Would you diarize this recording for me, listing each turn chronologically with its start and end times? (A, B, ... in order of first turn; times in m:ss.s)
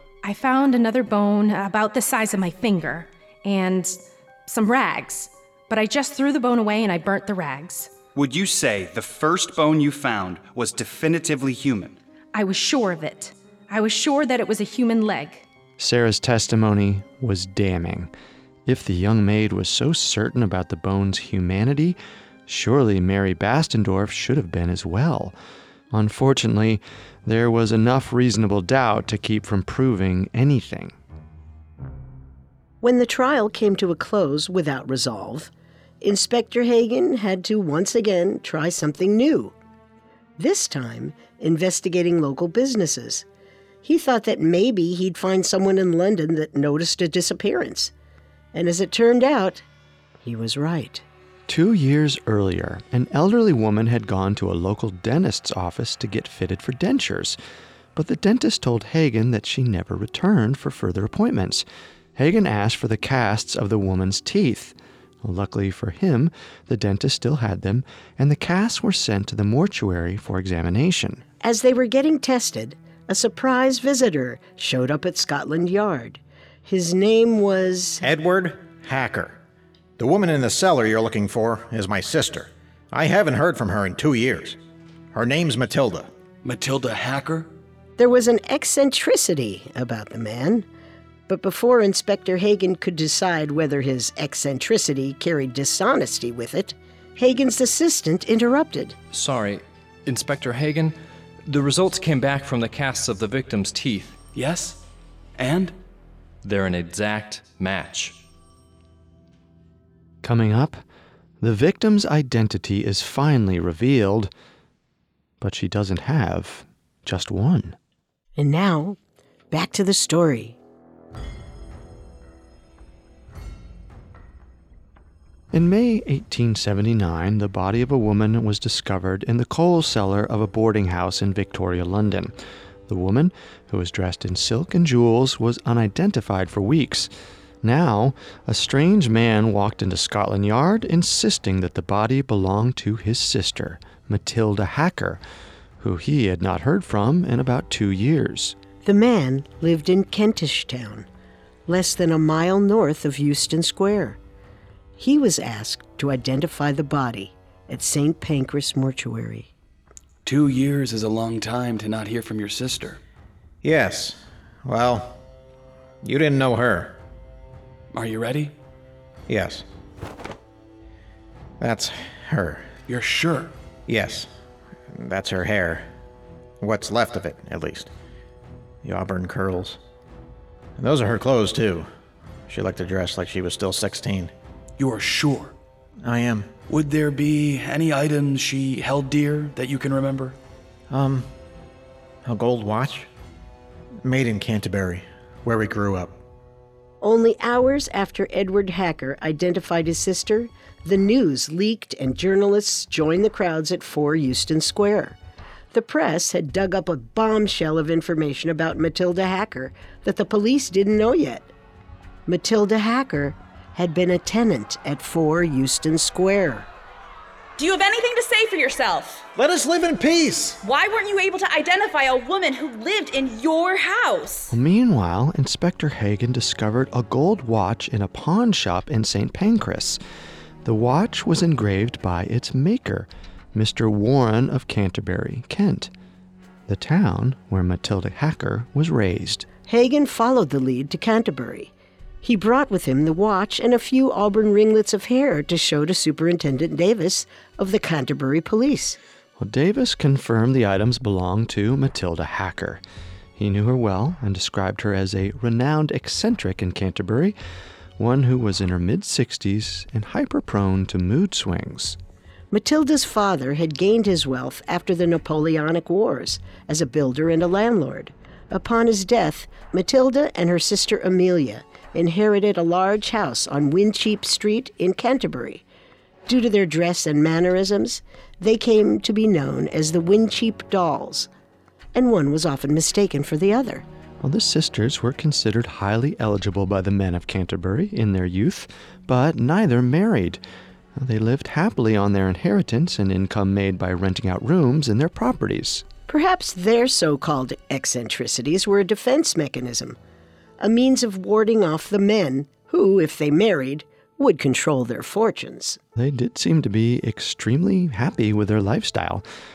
0:00.2-0:07.9 A
0:08.2-0:12.0 B
0:12.3-0:15.5 A
0:15.8-0:18.1 C
0:18.7-0:25.4 C
0:25.9-0:31.0 C
0:32.8-0:35.5 D
0:36.0-0:39.6 D
0:40.4-0:43.2 D
0:43.8-0:47.9 D
0:48.5-0:49.6 D
0:50.2-0:51.0 D
0:51.5-0:57.4 C
0:58.0-1:01.6 C
1:02.2-1:11.2 C
1:11.4-1:18.0 D
1:18.0-1:19.4 E
1:20.0-1:24.6 E
1:25.1-1:26.1 E
1:26.4-1:27.5 F
1:28.0-1:30.7 D
1:31.3-1:39.0 D
1:39.1-1:41.0 G
1:41.5-1:44.1 G
1:44.4-1:44.8 F
1:45.4-1:45.8 F
1:46.4-1:48.2 G
1:50.2-1:50.8 C
1:51.4-1:54.3 C
1:55.4-1:57.8 C
1:58.4-1:59.0 D
1:59.5-2:00.6 D
2:05.5-2:12.3 C
2:12.9-2:17.1 C
2:17.6-2:25.2 C
2:25.8-2:28.6 C
2:28.8-2:31.1 D
2:31.7-2:34.2 D
2:35.0-2:39.5 D
2:40.2-2:43.0 F
2:43.6-2:45.2 E
2:46.0-2:47.0 E
2:47.9-2:48.6 F
2:49.3-2:49.6 E
2:51.6-2:52.7 E
2:52.9-2:53.5 F
2:53.9-2:54.3 E
2:54.9-2:55.9 E
2:56.6-2:57.9 E
2:58.8-2:59.8 E
3:00.8-3:01.9 E
3:02.5-3:04.3 E
3:04.8-3:05.6 F
3:06.0-3:06.5 E
3:06.7-3:10.4 F
3:10.9-3:11.3 E
3:12.2-3:13.1 E
3:14.0-3:16.2 E
3:17.0-3:25.2 D
3:25.7-3:31.5 D
3:32.3-3:36.7 D
3:37.6-3:39.3 H
3:39.4-3:40.6 E
3:40.6-3:44.5 H
3:44.5-3:50.0 C
3:50.6-3:55.9 C
3:56.7-3:59.5 C
3:59.7-4:09.0 D
4:09.4-4:12.8 C
4:13.4-4:17.4 C
4:18.0-4:22.0 C
4:22.5-4:35.6 D
4:36.3-4:41.3 D
4:42.0-4:43.8 D
4:44.2-4:50.4 C
4:51.0-4:55.9 C
4:56.1-5:00.0 D
5:00.6-5:05.8 D
5:06.0-5:09.2 C